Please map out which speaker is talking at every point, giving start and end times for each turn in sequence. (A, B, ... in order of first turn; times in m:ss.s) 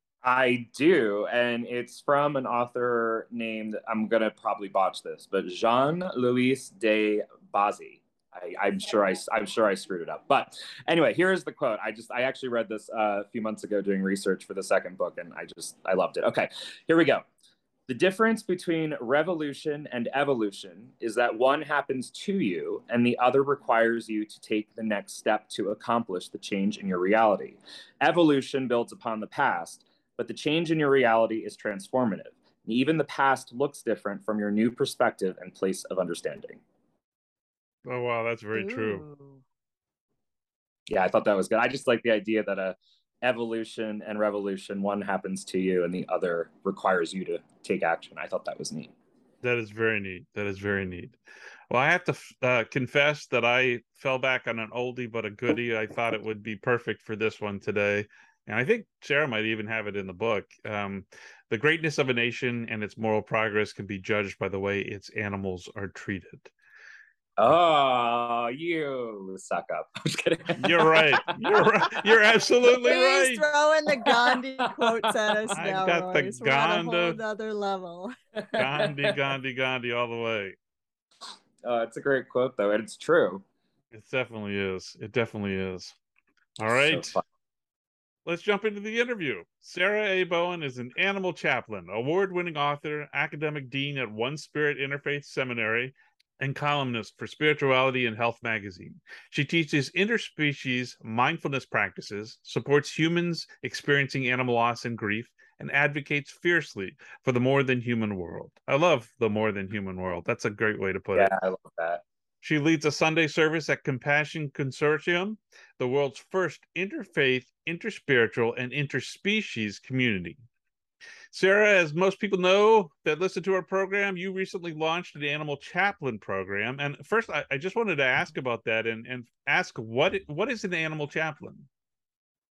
0:00.2-0:17.2 A
0:17.9-0:36.6 A
0:37.8-0:39.0 B
0:38.5-0:39.4 C
0:40.9-0:48.9 A
0:49.4-0:51.2 B
0:51.7-1:06.5 B
1:07.4-1:12.2 A
1:10.6-1:13.4 B
1:12.8-1:18.1 C
1:14.6-1:15.6 A
1:15.6-1:17.2 B
1:18.4-1:19.2 A
1:18.6-1:20.6 B
1:21.6-1:23.4 A
1:23.9-1:26.0 B
1:26.6-1:27.2 B
1:26.7-1:27.2 A
1:28.3-1:51.3 B
1:51.2-1:52.0 A
1:52.4-2:00.4 B
2:01.3-2:11.7 B